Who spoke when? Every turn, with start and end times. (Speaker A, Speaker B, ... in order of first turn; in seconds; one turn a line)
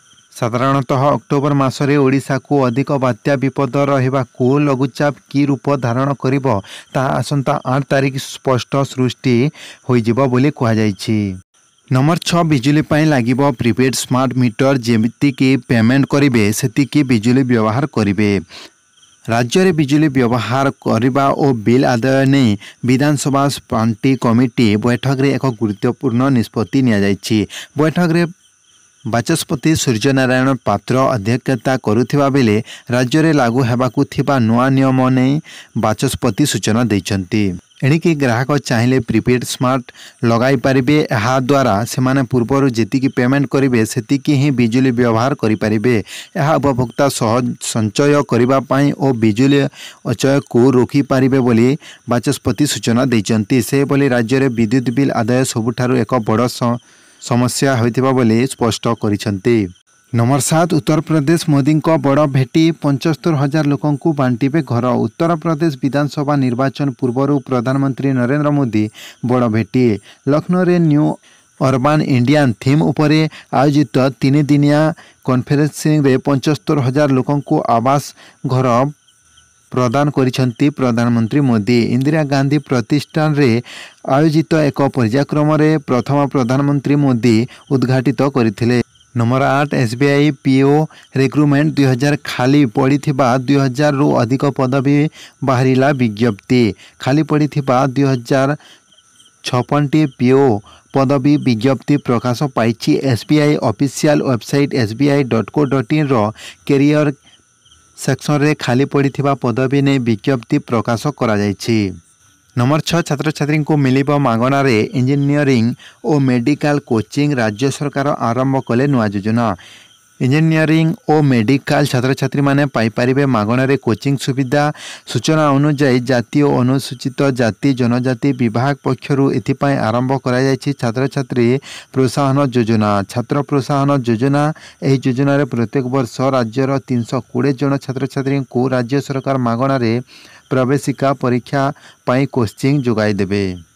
Speaker A: 0.3-11.2
Speaker A: 11.9-18.4
Speaker A: 19.3-28.3
Speaker A: 29.1-59.6
Speaker A: 60.1-78.9
Speaker A: 79.7-98.6
Speaker A: 99.4-107.1
Speaker A: 108.0-111.8
Speaker A: 112.6-119.6
Speaker A: 120.2-143.5